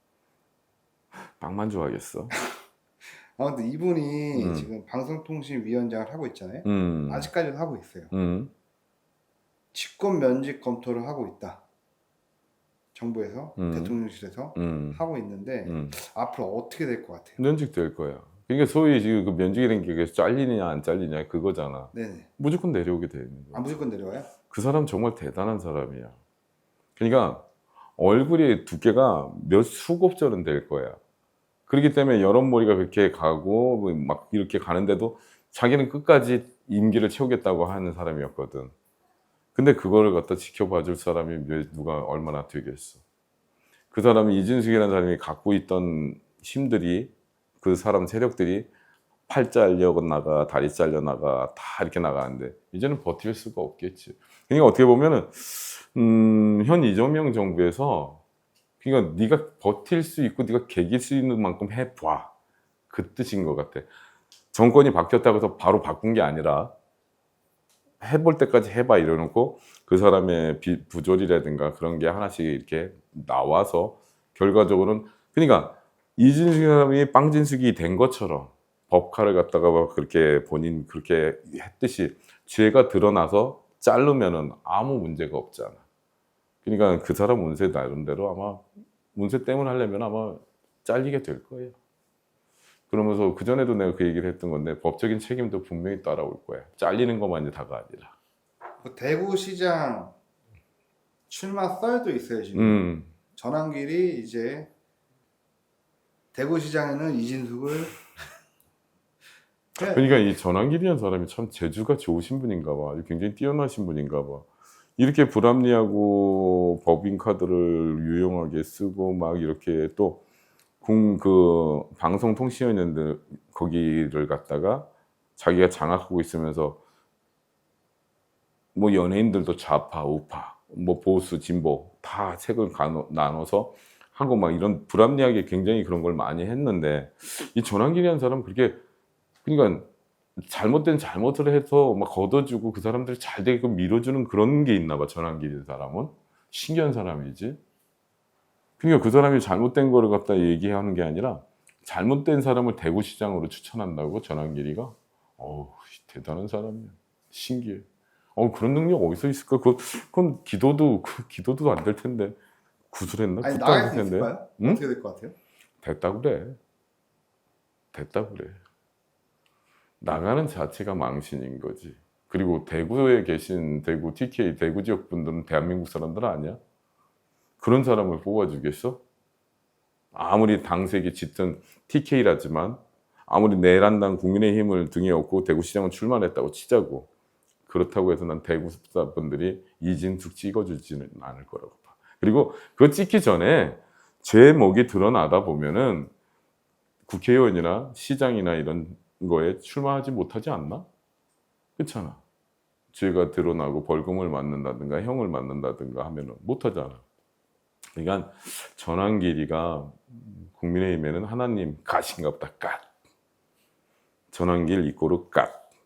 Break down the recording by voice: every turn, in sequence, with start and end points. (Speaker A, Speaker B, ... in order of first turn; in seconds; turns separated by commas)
Speaker A: 1.1-2.3, Speaker B: 3.3-8.1, Speaker A: 4.3-4.7, Speaker A: 6.6-7.3, Speaker A: 8.1-8.5, Speaker B: 9.7-11.6, Speaker B: 12.9-17.4, Speaker A: 13.6-14.0, Speaker A: 14.5-15.0, Speaker A: 15.6-16.0, Speaker A: 17.4-23.8, Speaker B: 21.9-22.3, Speaker B: 23.5-24.3, Speaker A: 24.5-26.2, Speaker A: 27.0-27.4, Speaker A: 28.0-31.0, Speaker A: 31.7-38.7, Speaker A: 39.5-43.0, Speaker A: 43.9-48.7, Speaker A: 49.3-58.2, Speaker A: 58.8-62.3, Speaker A: 62.9-63.9, Speaker A: 64.5-66.7, Speaker A: 68.0-85.8, Speaker A: 86.6-91.7, Speaker A: 92.9-98.1, Speaker B: 98.8-100.1, Speaker B: 101.3-104.7, Speaker A: 102.5-103.1, Speaker B: 106.3-108.0, Speaker B: 109.8-110.2, Speaker A: 109.8-114.5, Speaker A: 115.0-120.2, Speaker A: 120.8-126.8, Speaker A: 128.7-138.8, Speaker A: 139.4-147.6, Speaker A: 148.8-162.4, Speaker A: 162.9-164.8, Speaker B: 163.4-165.3, Speaker A: 165.8-166.6, Speaker A: 167.9-168.6, Speaker A: 170.0-176.6, Speaker A: 177.6-179.0, Speaker A: 180.1-187.1, Speaker A: 187.7-196.1, Speaker A: 197.1-200.9, Speaker A: 201.8-202.2, Speaker A: 202.9-207.0, Speaker A: 207.9-212.8, Speaker A: 214.3-215.6